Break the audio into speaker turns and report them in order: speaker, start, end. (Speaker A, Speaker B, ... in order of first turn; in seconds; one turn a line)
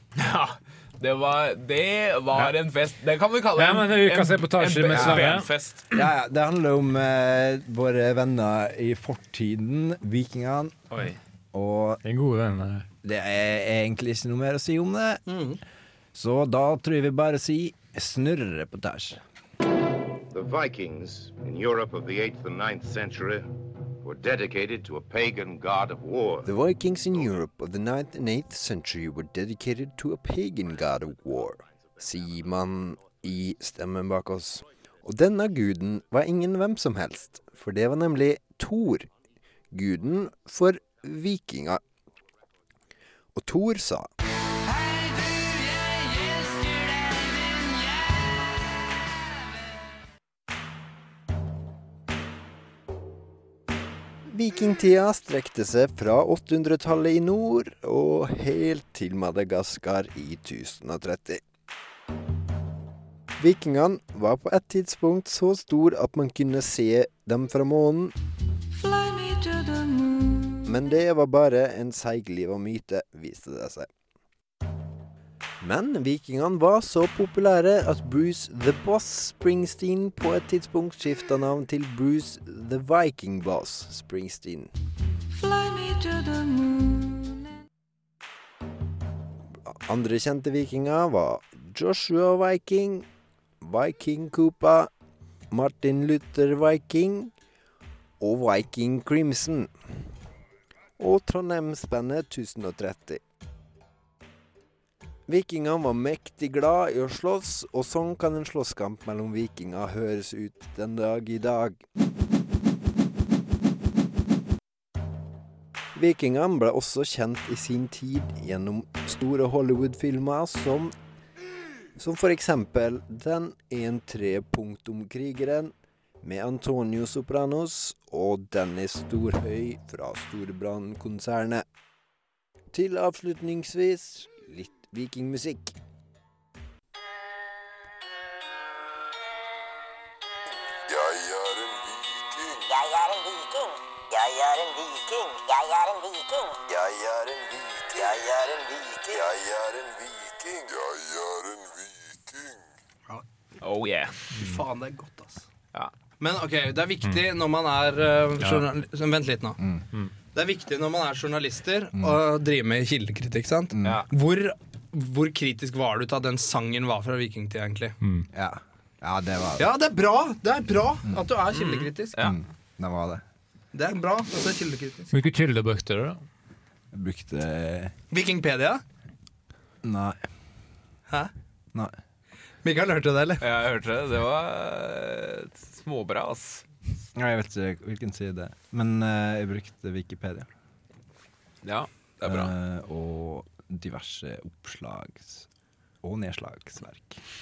Speaker A: 0.2-6.1
Speaker B: 3.6-5.5
Speaker C: 4.9-5.3
Speaker C: 5.9-10.8
Speaker C: 11.5-12.0
Speaker B: 12.0-12.9
Speaker C: 13.0-15.2
Speaker D: 15.3-15.6
Speaker C: 16.1-19.2
Speaker E: 20.3-23.5
Speaker E: 24.0-26.5
Speaker F: 26.5-39.1
Speaker F: 39.7-41.8
Speaker F: 43.4-44.1
Speaker G: 44.7-48.0
Speaker F: 54.3-61.4
Speaker F: 63.4-68.2
Speaker G: 68.7-70.8
Speaker F: 70.7-73.9
Speaker F: 75.6-84.7
Speaker G: 85.3-87.6
Speaker F: 89.7-93.1
Speaker F: 93.6-94.9
Speaker F: 95.5-97.3
Speaker F: 98.2-99.7
Speaker F: 101.0-103.2
Speaker F: 105.3-111.8
Speaker F: 116.0-121.0
Speaker F: 122.0-131.7
Speaker F: 132.7-135.8
Speaker H: 140.9-151.9
Speaker A: 153.6-154.3
Speaker D: 154.3-155.5
Speaker D: 156.2-159.6
Speaker D: 160.3-168.0
Speaker C: 163.7-164.0
Speaker B: 168.0-168.3
Speaker C: 168.3-169.7
Speaker D: 169.6-172.3
Speaker A: 171.5-172.3
Speaker C: 172.2-173.2
Speaker D: 173.7-175.1
Speaker B: 175.1-176.2
Speaker C: 176.9-177.9
Speaker D: 178.1-178.8
Speaker C: 179.8-180.2
Speaker D: 182.6-183.5
Speaker A: 183.4-186.7
Speaker C: 187.2-190.5
Speaker A: 191.6-192.5
Speaker C: 192.2-195.5
Speaker C: 196.0-197.2